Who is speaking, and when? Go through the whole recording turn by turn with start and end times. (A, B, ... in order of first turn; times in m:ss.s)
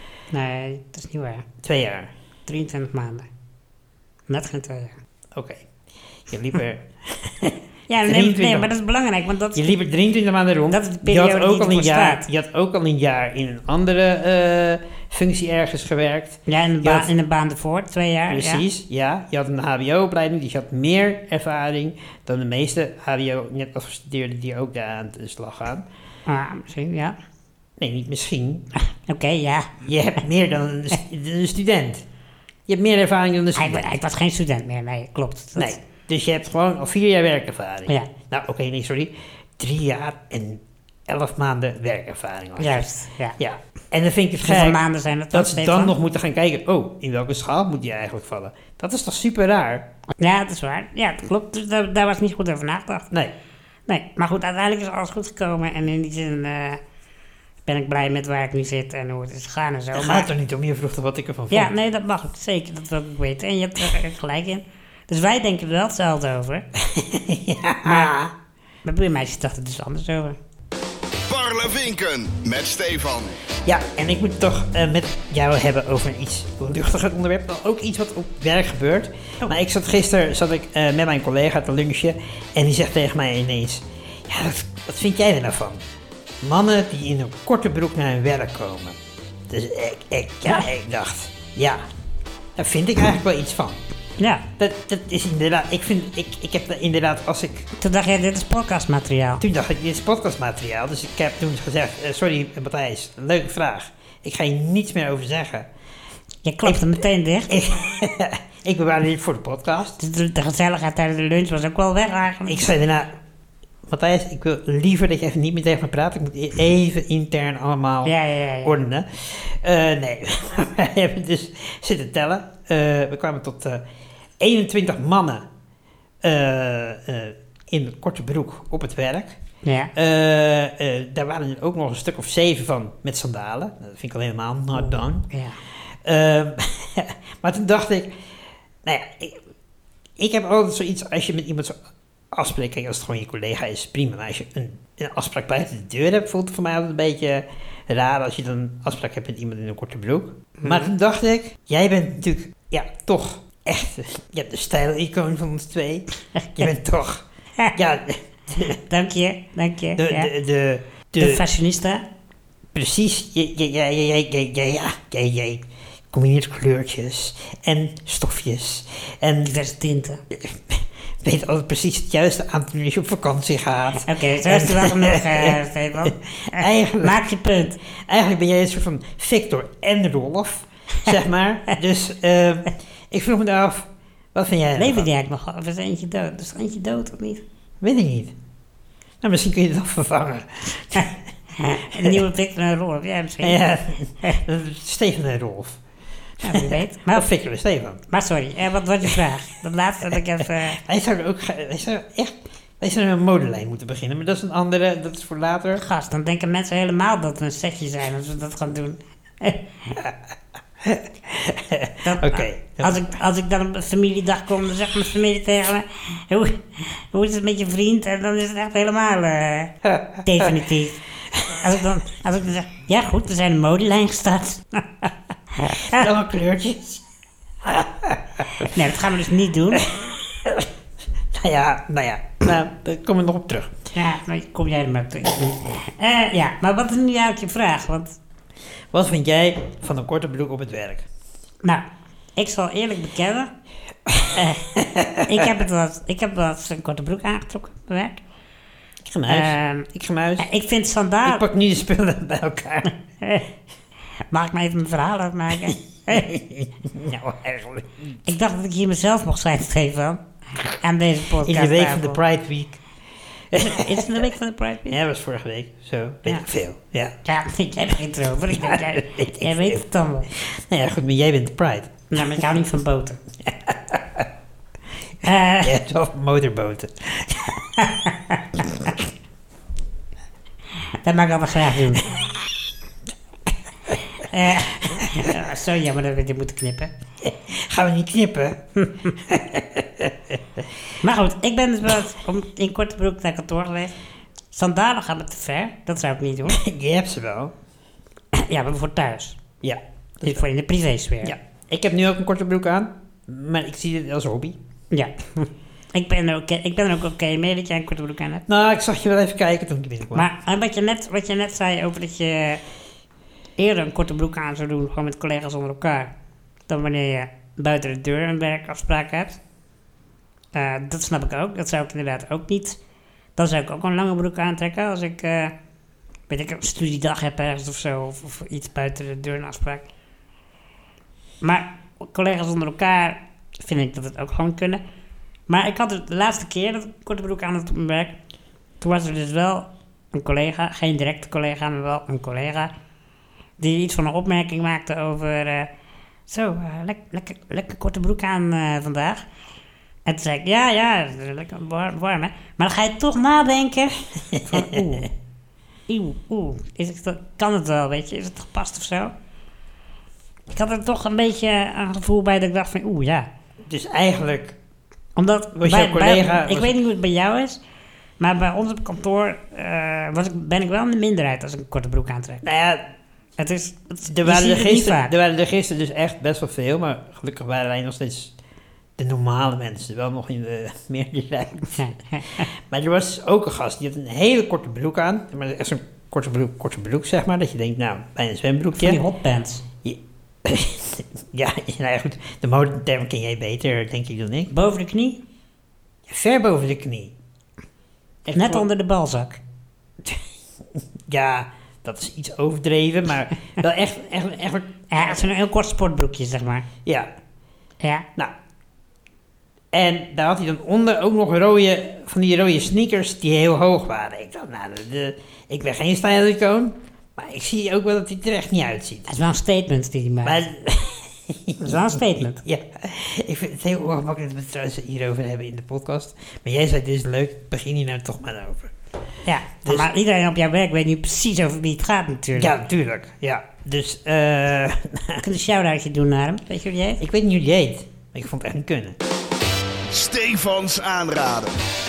0:00.3-0:01.5 A
0:01.6-0:02.1 B
0:02.5-0:03.3 A
0:04.3-0:05.0 A
0:05.3-0:05.7 B
0:06.3-0:08.7 B
0:07.9-0:09.8 A
0:09.6-0:17.1 B
0:10.7-0:12.3 A
0:16.5-0:18.6 A
0:18.3-0:25.9 B
0:26.3-0:27.2 A
0:27.8-0:28.7 B
0:28.9-0:29.7 A
0:29.8-0:32.1 B
0:32.7-0:33.9 B
0:33.6-0:35.8 A
0:35.6-0:49.9 B
0:42.6-0:43.4 A
0:44.4-0:45.9 A
0:50.2-0:53.1 A
0:53.9-0:56.8 A
0:57.6-1:00.3 A
0:59.9-1:01.7 B
1:01.5-1:06.7 A
1:06.8-1:08.3 B
1:07.8-1:08.1 A
1:08.8-1:10.4 A
1:11.3-1:13.4 C
1:13.7-1:25.8 B
1:26.4-1:31.8 B
1:32.6-1:33.8 B
1:34.2-1:34.5 A
1:34.6-1:37.7 B
1:37.8-1:39.4 A
1:39.4-1:45.7 B
1:46.4-1:47.5 A
1:46.6-1:50.0 B
1:50.0-1:52.7 A
1:52.5-1:53.1 B
1:53.9-2:03.8 B
1:58.0-1:58.8 A
2:04.4-2:05.5 B
2:06.2-2:09.4 B
2:09.6-2:09.9 A
2:10.0-2:15.3 B
2:14.8-2:15.6 A
2:16.0-2:18.2 B
2:18.8-2:19.4 B
2:20.2-2:21.8 B
2:22.3-2:37.2 B
2:30.6-2:30.9 A
2:36.4-2:36.7 A
2:37.8-2:38.8 B
2:38.7-2:40.3 A
2:40.0-2:41.4 B
2:41.2-2:42.0 A
2:42.7-2:49.6 B
2:49.4-2:50.2 A
2:50.3-2:57.2 B
2:54.0-2:57.8 A
2:57.9-3:05.1 B
3:04.8-3:07.4 A
3:07.8-3:08.3 B
3:09.2-3:11.2 B
3:11.6-3:13.6 A
3:11.9-3:12.2 B
3:13.4-3:15.8 B
3:16.4-3:18.0 B
3:16.4-3:17.3 A
3:18.1-3:20.8 A
3:20.7-3:25.8 B
3:25.8-3:30.0 A
3:30.8-3:33.0 B
3:32.0-3:46.1 A
3:39.8-3:40.5 B
3:41.4-3:41.6 B
3:45.9-3:47.0 B
3:47.6-3:48.7 B
3:48.6-3:49.9 A
3:49.7-3:50.7 B
3:51.3-3:53.8 B
3:54.0-3:58.2 A
3:58.9-4:01.1 B
4:02.4-4:03.5 A
4:04.1-4:05.5 B
4:05.3-4:08.2 A
4:09.0-4:10.5 B
4:09.3-4:09.9 A
4:10.4-4:11.4 A
4:11.2-4:12.9 B
4:14.3-4:16.3 A
4:15.7-4:18.2 B
4:18.3-4:22.2 A
4:21.4-4:22.8 B
4:23.5-4:24.3 B
4:23.6-4:25.0 A
4:24.9-4:27.2 B
4:27.2-4:30.3 A
4:28.5-4:32.4 B
4:32.1-4:33.2 A
4:33.4-4:34.3 B
4:35.2-4:35.8 A
4:35.6-4:37.7 B
4:37.8-4:38.4 A
4:40.9-4:42.2 A
4:44.2-4:46.9 A
4:44.8-4:45.3 B
4:47.2-4:50.7 B
4:48.8-4:49.1 A
4:51.0-4:53.9 A
4:54.5-4:56.6 A
4:56.5-4:57.6 B
4:58.3-4:59.4 A
4:59.6-5:00.4 B
5:00.2-5:01.4 A
5:01.2-5:04.6 B
5:04.9-5:08.4 A
5:08.5-5:10.3 B
5:10.1-5:12.6 A
5:13.6-5:16.1 A
5:16.7-5:19.4 A
5:20.5-5:22.8 A
5:23.4-5:25.5 A
5:26.3-5:29.9 A
5:31.4-5:34.8 A
5:35.5-5:38.2 A
5:38.8-5:42.7 A
5:43.6-5:45.7 A
5:46.3-5:49.2 A
5:50.1-5:55.1 A
5:54.3-5:55.1 B
5:55.9-5:59.1 A
6:00.5-6:03.3 A
6:03.6-6:04.6 B
6:05.2-6:07.6 A
6:05.6-6:06.8 B
6:08.2-6:12.4 A
6:12.4-6:12.9 B
6:13.4-6:15.1 A
6:14.1-6:18.3 B
6:19.0-6:29.0 B
6:21.7-6:22.5 A
6:28.8-6:29.6 A
6:29.8-6:34.5 B
6:34.5-6:35.2 A
6:36.1-6:37.1 B
6:38.2-6:38.7 B
6:38.3-6:39.4 A
6:40.0-6:45.2 B
6:44.9-6:46.7 A
6:47.8-6:48.1 A
6:49.7-6:59.1 B
6:59.1-7:00.4 A
7:00.2-7:08.7 B
7:01.6-7:02.4 A
7:09.2-7:12.5 A
7:12.4-7:15.2 B
7:15.2-7:17.0 A
7:17.0-7:19.0 B
7:19.9-7:21.6 C